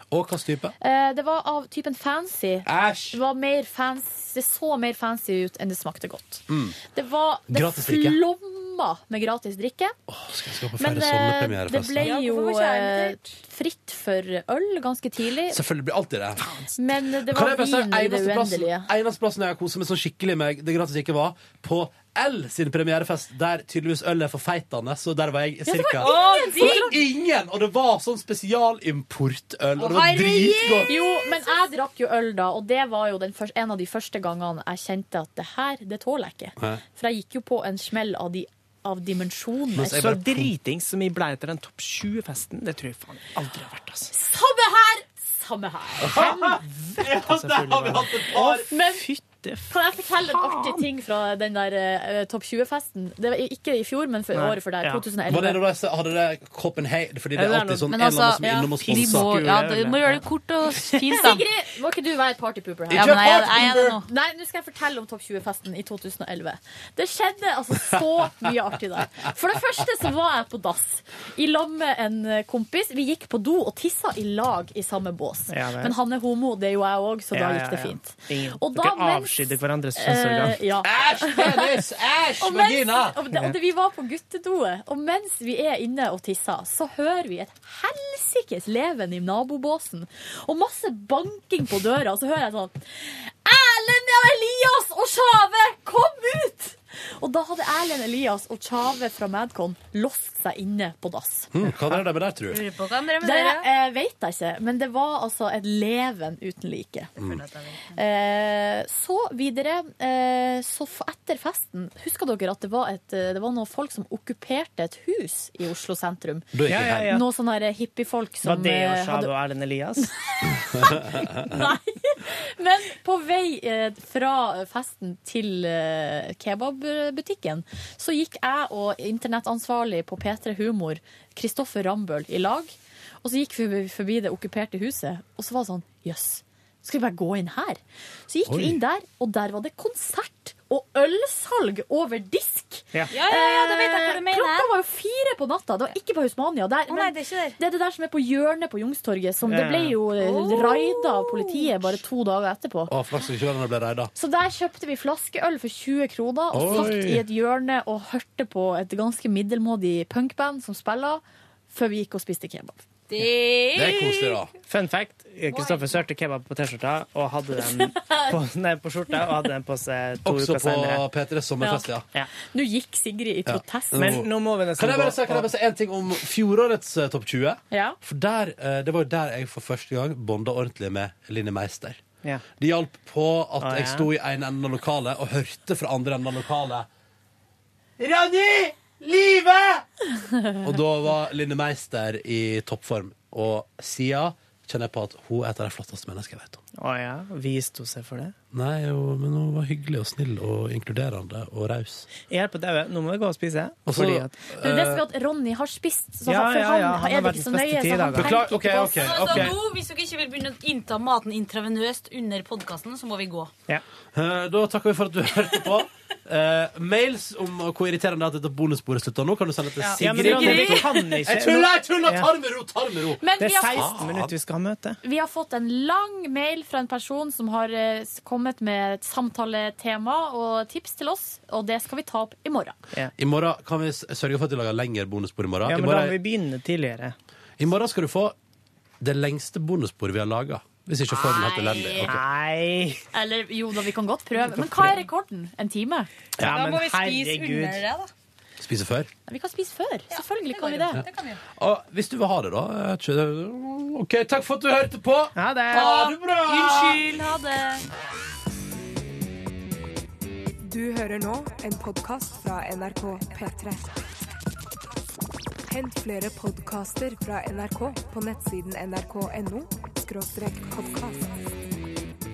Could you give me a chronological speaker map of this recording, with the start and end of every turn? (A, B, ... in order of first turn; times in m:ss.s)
0:00.1-0:00.7 A
0:00.8-0:10.0 B
0:02.6-0:03.2 A
0:06.5-0:06.8 A
0:07.5-0:08.2 A
0:10.1-0:12.1 A
0:10.8-0:15.6 B
0:12.0-0:13.4 C
0:15.5-0:16.4 A
0:16.4-0:16.7 D
0:16.8-0:18.9 B
0:17.2-0:30.9 A
0:25.6-0:27.0 B
0:26.0-0:26.9 C
0:29.8-0:31.5 C
0:30.9-0:40.2 B
0:39.7-0:40.5 A
0:39.8-0:44.1 D
0:44.1-0:46.6 B
0:46.0-0:48.6 A
0:46.5-0:50.8 D
0:48.7-0:49.0 B
0:49.7-0:55.6 B
0:54.3-0:55.0 D
0:55.3-0:59.4 A
0:57.4-0:58.0 D
0:57.9-1:01.4 C
0:58.4-0:58.8 B
0:58.9-1:00.3 D
1:01.0-1:21.8 B
1:02.9-1:04.0 A
1:02.9-1:04.0 C
1:15.5-1:15.9 D
1:17.3-1:20.6 D
1:20.8-1:23.2 A
1:22.4-1:41.5 B
1:41.5-1:42.6 A
1:42.5-1:43.6 C
1:43.2-1:47.1 B
1:47.2-1:47.4 A
1:47.2-1:48.0 C
1:47.9-1:56.5 B
1:56.5-1:57.1 A
1:56.7-1:57.2 D
1:57.1-1:59.3 B
1:58.4-2:00.1 D
2:00.0-2:32.9 B
2:18.5-2:18.8 A
2:23.1-2:24.7 C
2:26.9-2:27.6 C
2:29.4-2:30.0 D
2:30.2-2:31.7 C
2:32.9-2:34.1 A
2:34.1-2:42.8 B
2:36.5-2:37.2 A
2:43.1-2:44.4 C
2:43.7-2:44.5 A
2:44.7-2:51.0 D
2:48.0-2:48.3 B
2:50.2-2:52.0 A
2:51.6-2:51.9 B
2:52.4-2:54.2 B
2:53.4-3:02.0 A
2:54.0-2:55.5 D
2:57.7-2:58.0 B
3:02.6-3:06.9 A
3:03.6-3:04.1 D
3:08.0-3:09.8 A
3:10.6-3:16.6 A
3:16.8-3:18.3 D
3:18.5-3:22.1 A
3:22.2-3:24.3 D
3:23.9-3:25.0 A
3:24.6-3:29.5 B
3:26.3-3:28.3 D
3:28.1-3:29.6 A
3:28.9-3:33.5 C
3:34.1-3:44.3 A
3:39.8-3:40.9 C
3:40.0-3:42.3 D
3:40.2-3:40.8 B
3:43.2-3:44.0 B
3:43.4-3:45.0 D
3:45.0-3:52.8 B
3:53.2-3:56.2 A
3:55.6-3:57.1 D
3:57.6-3:58.3 A
3:59.0-4:02.2 A
4:01.1-4:02.1 C
4:02.0-4:03.0 D
4:03.1-4:06.1 B
4:04.4-4:05.0 D
4:06.4-4:07.9 D
4:06.4-4:08.1 C
4:08.6-4:09.1 A
4:09.3-4:11.0 B
4:10.1-4:11.4 C
4:11.6-4:17.0 A
4:15.4-4:15.9 D
4:15.7-4:17.8 C
4:20.6-4:24.0 E
4:25.7-4:31.5 E